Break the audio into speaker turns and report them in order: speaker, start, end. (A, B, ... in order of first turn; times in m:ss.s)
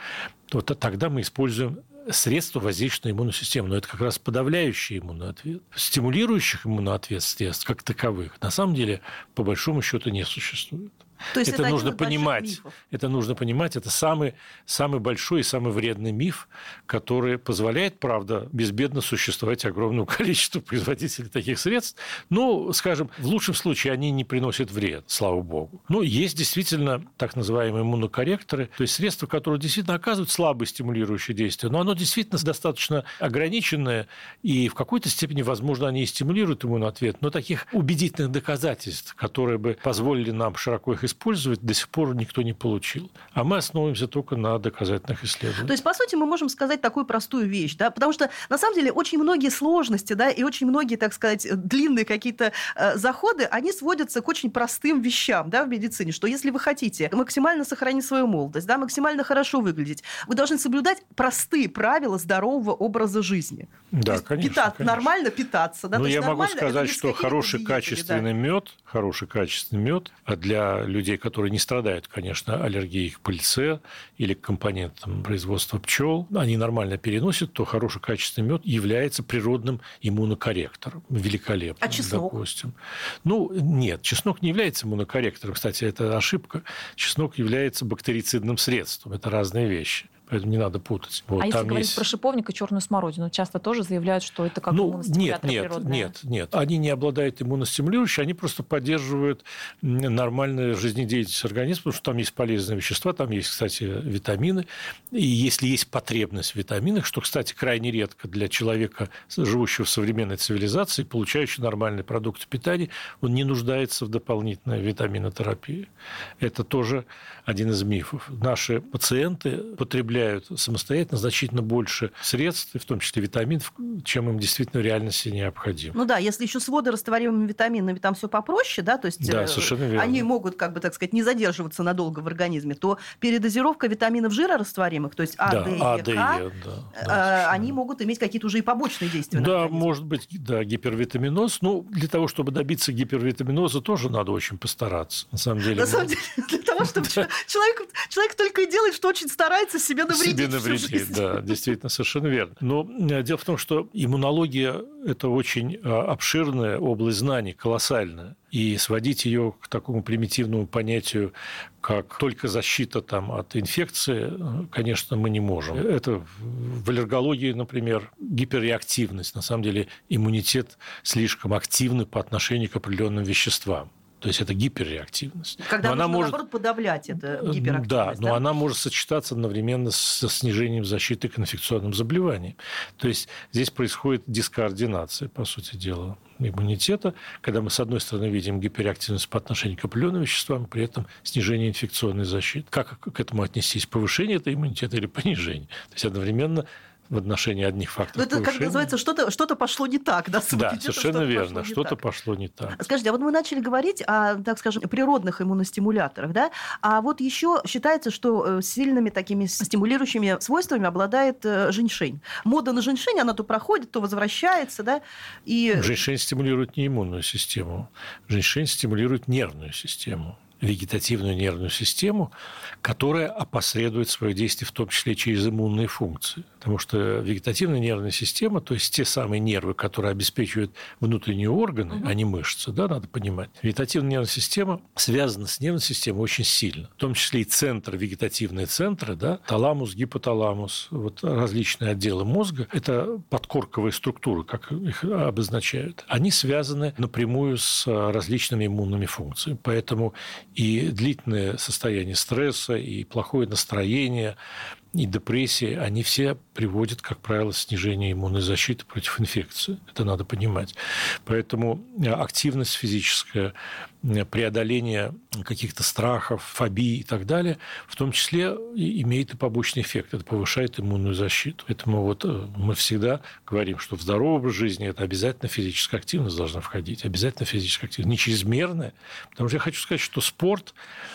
0:00.5-0:45.7 A
0:11.3-0:12.7 B
0:45.6-1:08.3 B
1:03.9-1:05.1 A
1:05.9-1:32.0 A
1:21.8-1:22.4 B
1:31.4-1:36.1 C
1:34.7-1:55.9 A
1:56.4-2:06.0 A
2:05.9-2:19.9 B
2:09.2-2:10.3 A
2:15.4-2:17.7 A
2:19.3-2:26.1 A
2:25.7-2:31.5 B
2:30.1-2:56.4 A
2:55.6-2:58.5 B
2:57.2-3:18.9 A
3:18.1-3:22.0 B
3:20.5-3:22.8 A
3:22.7-3:35.9 B
3:35.7-4:14.4 A
4:14.9-4:40.8 A